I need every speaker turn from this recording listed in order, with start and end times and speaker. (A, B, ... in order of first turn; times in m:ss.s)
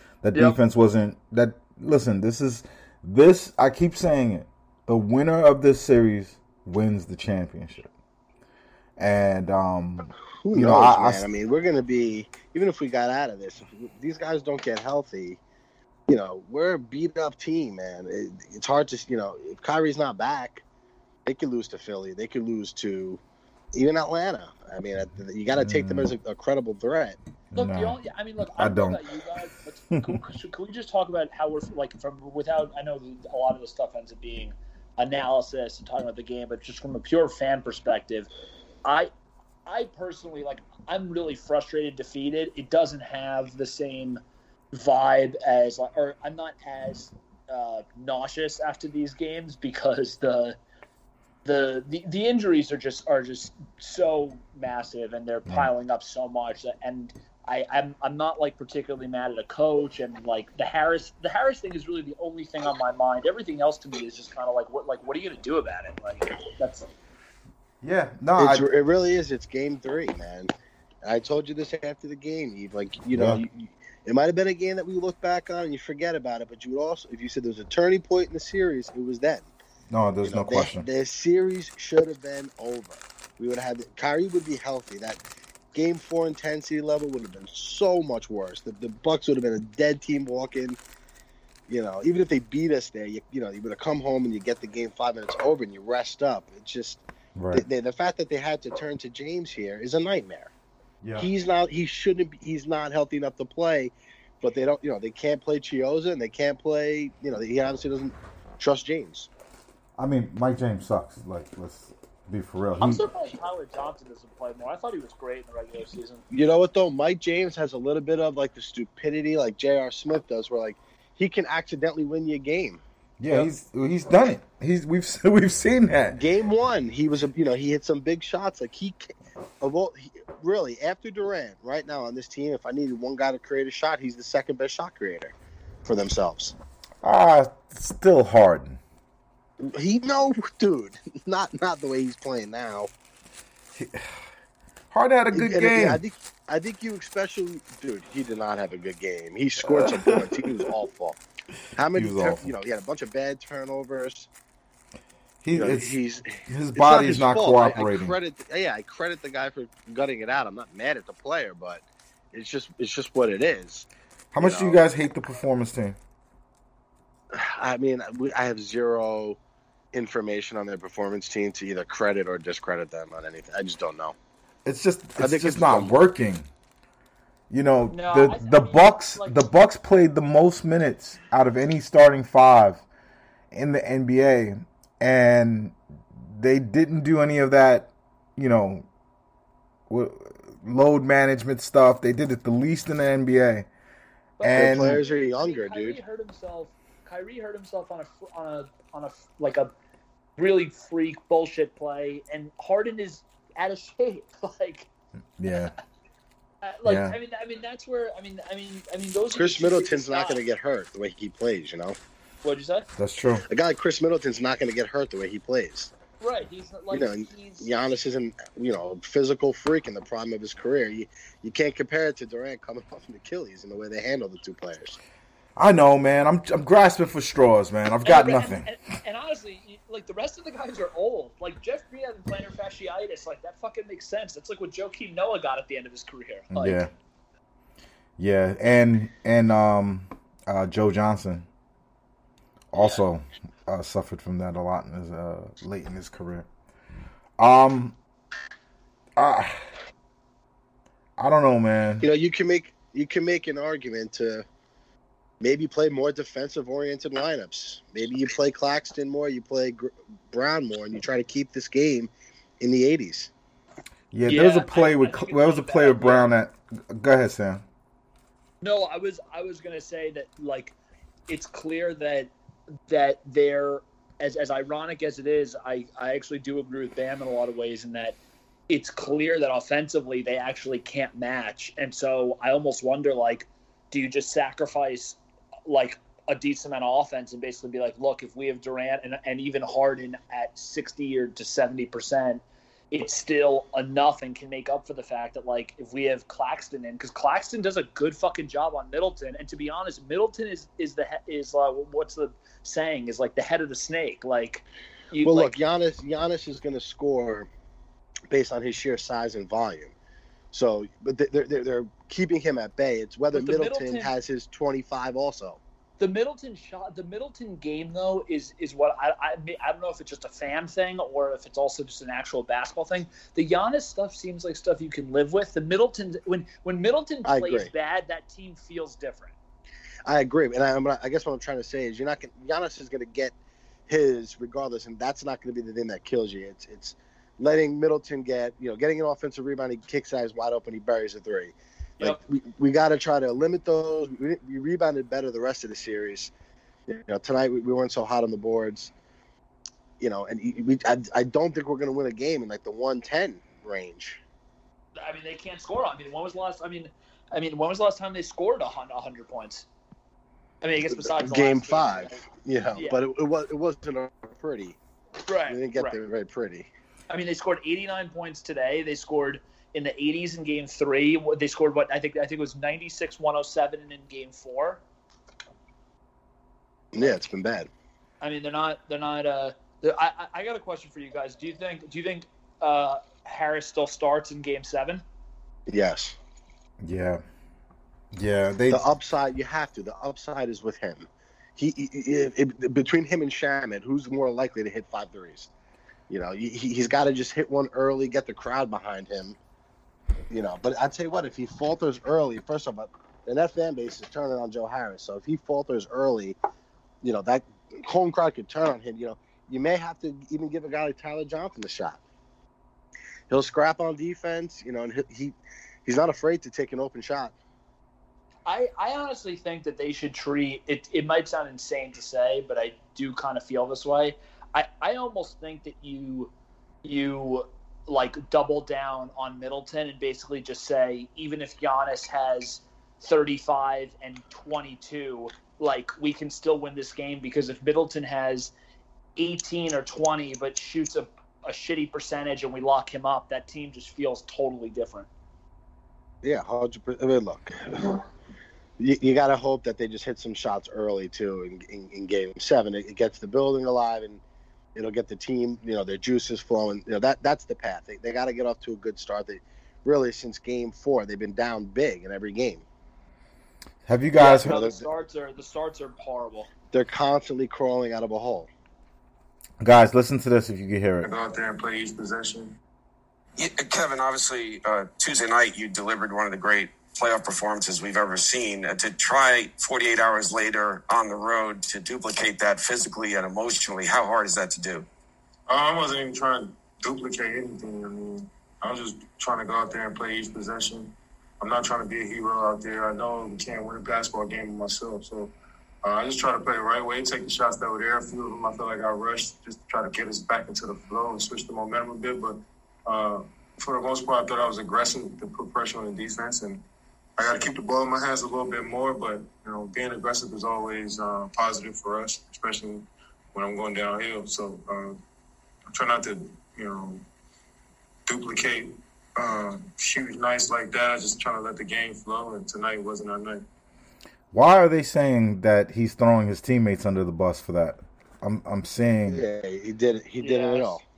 0:00.2-0:07.9 A
0:09.0-0:11.3 A
0:10.4-0:15.4 B
0:16.1-0:20.6 B
0:21.2-0:23.2 B
0:23.7-0:27.2 B
0:25.5-0:26.2 A
0:27.5-0:28.0 A
0:27.5-0:38.3 C
0:28.6-0:29.0 A
0:38.8-0:39.1 C
0:39.7-0:44.2 C
0:44.7-0:50.6 C
0:51.4-1:06.9 C
1:07.8-1:08.7 A
1:08.4-1:19.5 B
1:13.1-1:13.4 A
1:19.9-1:20.9 A
1:20.2-1:25.2 B
1:25.7-1:30.8 B
1:31.7-1:40.5 B
1:37.4-1:37.6 A
1:41.0-1:41.3 A
1:41.2-1:49.3 B
1:50.0-1:53.1 A
1:52.8-1:56.2 C
1:56.3-2:02.8 B
2:03.2-2:06.2 A
2:06.2-2:15.3 B
2:15.8-2:16.6 B
2:17.0-2:18.8 A
2:19.6-2:22.9 B
2:23.8-2:24.1 A
2:24.9-2:26.0 A
2:25.3-2:31.2 B
2:29.6-2:30.4 A
2:31.8-2:34.3 B
2:31.9-2:32.5 A
2:35.4-2:36.0 A
2:35.5-2:43.9 B
2:36.5-2:38.2 A
2:44.3-2:46.0 A
2:44.4-2:44.8 B
2:47.3-2:49.4 B
2:49.9-2:54.2 B
2:54.6-2:56.5 A
2:55.2-2:55.9 B
2:57.5-3:02.8 A
2:57.9-2:59.4 C
3:03.5-3:05.8 A
3:06.3-3:08.8 A
3:09.9-3:13.7 A
3:14.4-3:19.7 C
3:14.4-3:15.0 A
3:14.5-3:16.0 B
3:20.4-3:24.9 C
3:25.4-3:25.7 A
3:26.6-3:30.4 C
3:26.8-3:27.2 A
3:29.4-3:32.0 B
3:32.4-3:32.9 C
3:33.0-3:33.4 A
3:33.5-3:35.9 B
3:36.2-3:37.7 C
3:36.9-3:45.0 B
3:45.6-3:48.7 A
3:48.0-3:56.9 C
3:56.5-3:56.9 A
3:58.2-4:01.5 A
4:02.7-4:06.5 A
4:07.4-4:08.0 A
4:09.2-4:09.6 A
4:11.2-4:12.1 A
4:12.0-4:14.5 B
4:15.4-4:23.3 B
4:24.1-4:27.6 A
4:24.3-4:26.3 C
4:28.6-4:30.8 C
4:31.3-4:32.3 C
4:32.9-4:38.2 C
4:38.7-5:05.6 C
5:05.2-5:07.5 B
5:08.3-5:09.9 B
5:10.5-5:15.6 B
5:13.3-5:14.1 C
5:16.0-5:29.3 C
5:27.2-5:27.7 B
5:30.1-5:33.4 B
5:33.9-5:46.3 B
5:46.9-5:48.9 B
5:50.0-5:54.2 B
5:55.0-5:59.7 C
6:00.6-6:02.2 C
6:00.8-6:04.8 B
6:02.7-6:03.0 C
6:05.3-6:06.0 C
6:05.5-6:06.7 B
6:07.1-6:14.8 C
6:16.9-6:17.7 B
6:18.2-6:25.0 C
6:25.7-6:26.2 B
6:26.8-6:27.2 A
6:28.1-6:28.8 A
6:28.7-6:35.5 B
6:36.1-6:39.4 B
6:40.3-6:46.4 B
6:47.0-6:52.0 B
6:53.3-6:57.3 B
6:58.5-7:06.3 C
7:06.8-7:18.5 C
7:19.2-7:25.1 C
7:26.2-7:28.0 B
7:28.8-7:34.2 B
7:34.7-7:42.6 B
7:43.9-7:44.5 A
7:44.2-7:46.5 C
7:44.4-7:44.8 B
7:46.7-7:48.5 B
7:49.6-7:51.1 A
7:51.0-7:52.6 D
7:53.4-8:04.9 E
8:05.5-8:26.6 D
8:27.2-8:35.0 D
8:35.7-8:37.1 D
8:38.1-8:43.5 D
8:44.3-8:49.2 A
8:49.1-8:50.8 B
8:50.2-8:50.8 C